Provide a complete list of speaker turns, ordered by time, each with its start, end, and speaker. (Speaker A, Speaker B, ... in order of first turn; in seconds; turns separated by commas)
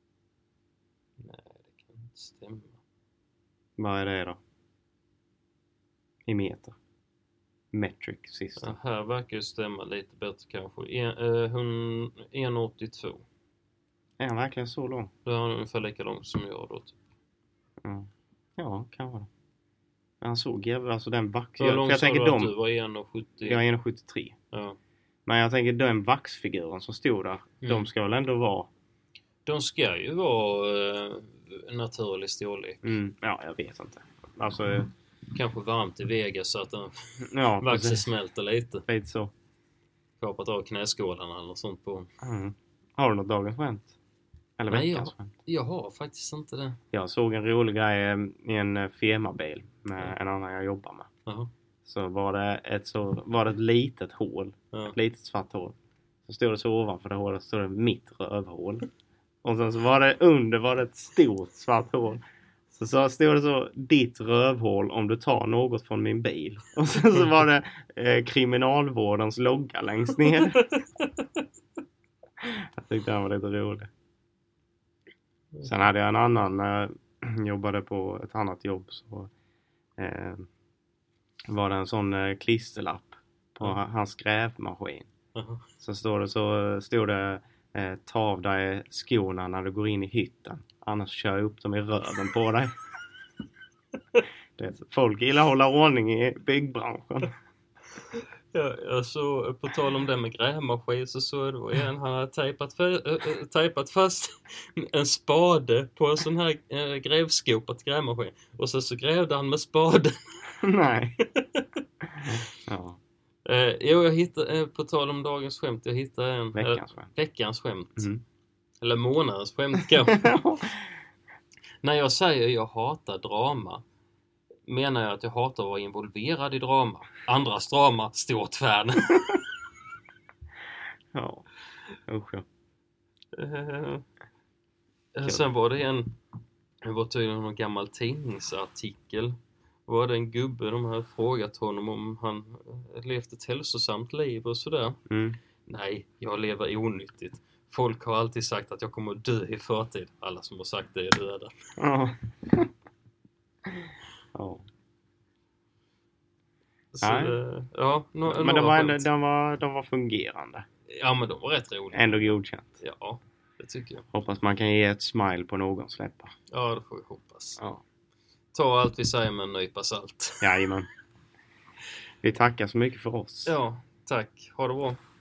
Speaker A: 1.2-2.8, Speaker B: 3.8-4.4, Speaker B: 6.2-6.7, Speaker B: 7.7-8.8, Speaker A: 8.6-13.2, Speaker B: 14.2-15.1, Speaker A: 15.2-17.0, Speaker B: 17.8-19.3, Speaker B: 20.2-22.5, Speaker A: 21.6-23.6, Speaker B: 23.4-24.4, Speaker A: 24.5-24.8, Speaker B: 25.2-28.7, Speaker A: 27.6-27.9, Speaker A: 29.4-32.9, Speaker B: 32.8-34.9, Speaker A: 35.3-38.9, Speaker B: 37.2-38.0, Speaker B: 38.9-39.3, Speaker A: 40.2-42.1, Speaker B: 42.2-43.9, Speaker B: 44.6-45.3, Speaker A: 44.7-46.8, Speaker B: 46.9-51.1, Speaker A: 51.2-51.5, Speaker B: 51.8-55.7, Speaker B: 56.2-58.9, Speaker B: 59.4-62.2, Speaker B: 62.7-70.7, Speaker A: 70.5-71.4, Speaker B: 72.4-73.9, Speaker B: 75.6-79.3, Speaker B: 80.0-80.5, Speaker B: 81.5-85.1, Speaker A: 85.3-85.7, Speaker B: 85.8-92.7, Speaker B: 94.6-97.3, Speaker A: 98.1-110.5, Speaker B: 110.6-111.2, Speaker A: 111.2-111.7, Speaker B: 112.1-113.0, Speaker A: 113.4-118.1, Speaker B: 116.5-117.1, Speaker B: 118.0-118.2, Speaker A: 118.8-120.3, Speaker B: 120.0-120.9, Speaker A: 121.8-123.8, Speaker A: 124.7-129.4, Speaker B: 131.1-131.4, Speaker B: 132.1-132.4, Speaker A: 133.3-134.0, Speaker A: 135.1-136.2, Speaker A: 136.8-145.0, Speaker B: 145.1-145.4, Speaker A: 145.6-151.5, Speaker B: 151.8-152.7, Speaker B: 153.7-154.6, Speaker A: 156.9-159.1, Speaker B: 157.0-157.3, Speaker B: 158.2-160.7, Speaker A: 160.9-164.0, Speaker B: 161.9-162.8, Speaker B: 164.1-166.3, Speaker A: 166.5-167.6, Speaker A: 168.5-170.6, Speaker B: 170.4-170.9, Speaker B: 172.2-173.6, Speaker A: 173.4-175.0